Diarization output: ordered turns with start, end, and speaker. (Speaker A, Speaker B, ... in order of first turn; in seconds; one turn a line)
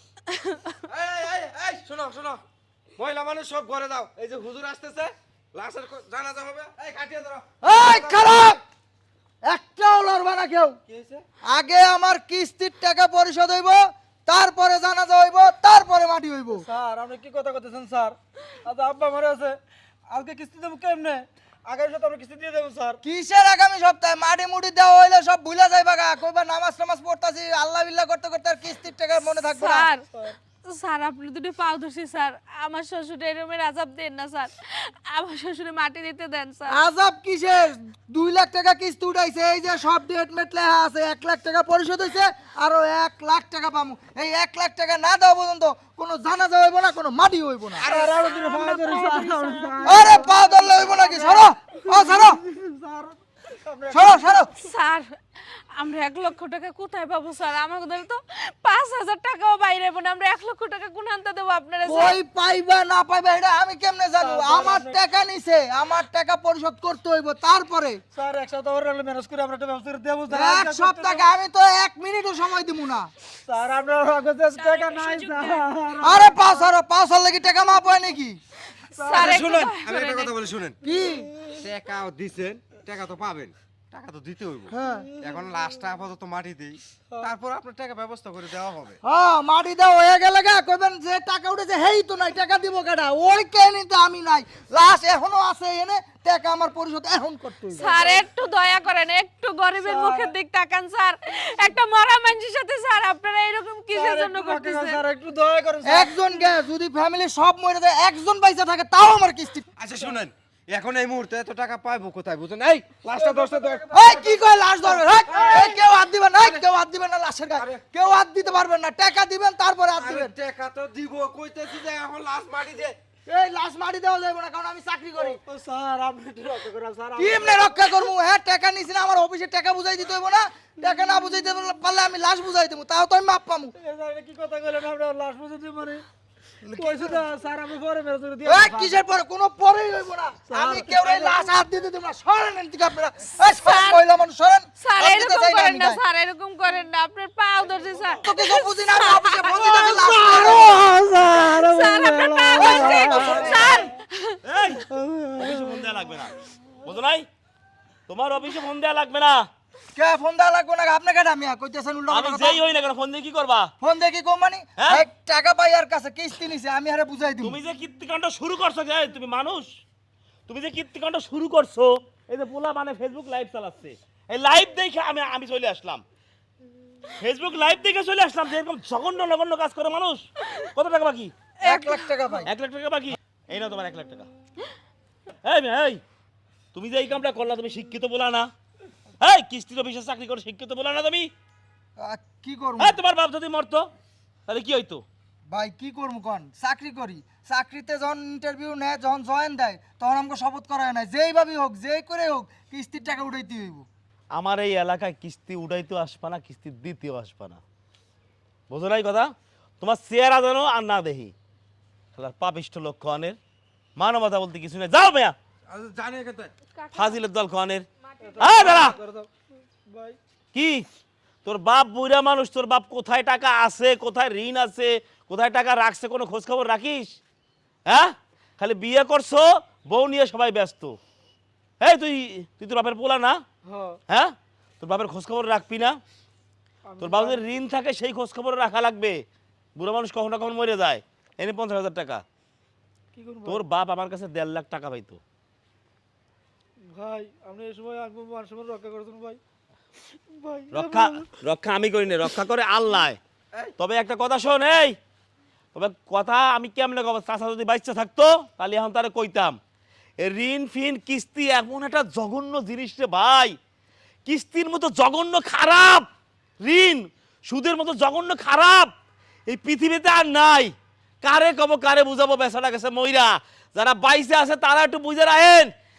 Speaker A: 0.3-0.8
Speaker B: 0.9-2.4
Speaker B: 3.0-8.1
Speaker C: 7.6-8.6
Speaker C: 9.4-10.8
Speaker B: 10.9-11.2
Speaker C: 11.4-16.6
Speaker D: 16.6-19.6
Speaker D: 20.1-23.0
Speaker C: 23.0-29.9
Speaker A: 29.4-30.1
Speaker A: 30.6-36.8
Speaker C: 36.7-47.9
Speaker D: 47.8-54.3
Speaker B: 47.9-48.1
Speaker A: 47.9-50.3
Speaker C: 49.8-52.4
Speaker C: 53.9-54.5
Speaker A: 54.6-55.2
Speaker A: 55.7-62.2
Speaker C: 61.9-68.0
Speaker D: 64.2-65.0
Speaker D: 68.1-71.2
Speaker C: 70.3-73.1
Speaker D: 73.5-76.6
Speaker A: 74.6-75.7
Speaker C: 76.0-78.4
Speaker A: 78.7-80.3
Speaker D: 79.0-79.4
Speaker B: 79.1-80.8
Speaker C: 80.8-81.3
Speaker B: 81.6-89.0
Speaker C: 84.7-85.1
Speaker D: 85.0-85.6
Speaker C: 89.0-97.9
Speaker D: 97.7-98.2
Speaker A: 97.8-105.0
Speaker D: 99.8-100.3
Speaker D: 103.9-106.1
Speaker C: 105.8-109.6
Speaker B: 109.8-113.8
Speaker D: 113.1-114.3
Speaker C: 113.9-120.3
Speaker B: 115.0-115.8
Speaker D: 115.3-115.6
Speaker B: 120.0-123.0
Speaker C: 123.2-125.4
Speaker D: 125.2-127.7
Speaker C: 127.2-133.7
Speaker D: 133.8-136.0
Speaker D: 136.7-138.9
Speaker C: 138.4-146.0
Speaker D: 140.5-141.3
Speaker A: 143.4-144.0
Speaker A: 144.8-150.8
Speaker C: 148.2-151.0
Speaker D: 150.2-153.8
Speaker A: 151.5-154.4
Speaker C: 152.5-153.9
Speaker E: 154.4-157.3
Speaker D: 154.9-155.5
Speaker E: 158.1-159.5
Speaker C: 159.9-162.6
Speaker E: 162.1-163.7
Speaker C: 163.8-167.6
Speaker E: 164.8-165.1
Speaker E: 167.4-169.8
Speaker E: 170.5-176.0
Speaker E: 177.2-181.3
Speaker A: 181.6-182.4
Speaker C: 181.6-182.5
Speaker E: 182.4-184.3
Speaker E: 185.4-186.0
Speaker E: 186.7-188.5
Speaker E: 189.2-191.3
Speaker C: 192.0-193.0
Speaker E: 192.8-193.9
Speaker E: 194.5-195.0
Speaker C: 195.5-203.9
Speaker E: 204.3-207.6
Speaker E: 208.7-211.3
Speaker E: 212.2-213.4
Speaker E: 214.0-215.3
Speaker B: 215.7-216.5
Speaker A: 216.8-217.1
Speaker E: 216.9-217.8
Speaker A: 218.2-218.9
Speaker D: 218.2-219.3
Speaker E: 218.4-219.0
Speaker D: 219.8-220.2
Speaker E: 220.5-220.8
Speaker E: 221.4-227.2
Speaker E: 227.8-231.0
Speaker E: 231.8-233.4
Speaker D: 233.6-234.0
Speaker E: 234.1-236.0
Speaker D: 236.9-237.4
Speaker E: 237.0-239.2
Speaker E: 239.8-242.2
Speaker D: 243.1-243.6
Speaker E: 243.4-245.2
Speaker D: 246.8-249.4
Speaker D: 250.3-251.2
Speaker E: 250.7-253.2
Speaker E: 253.8-254.9
Speaker E: 255.7-259.6
Speaker E: 260.2-263.6
Speaker E: 264.2-266.1
Speaker E: 266.6-268.9
Speaker E: 269.5-275.7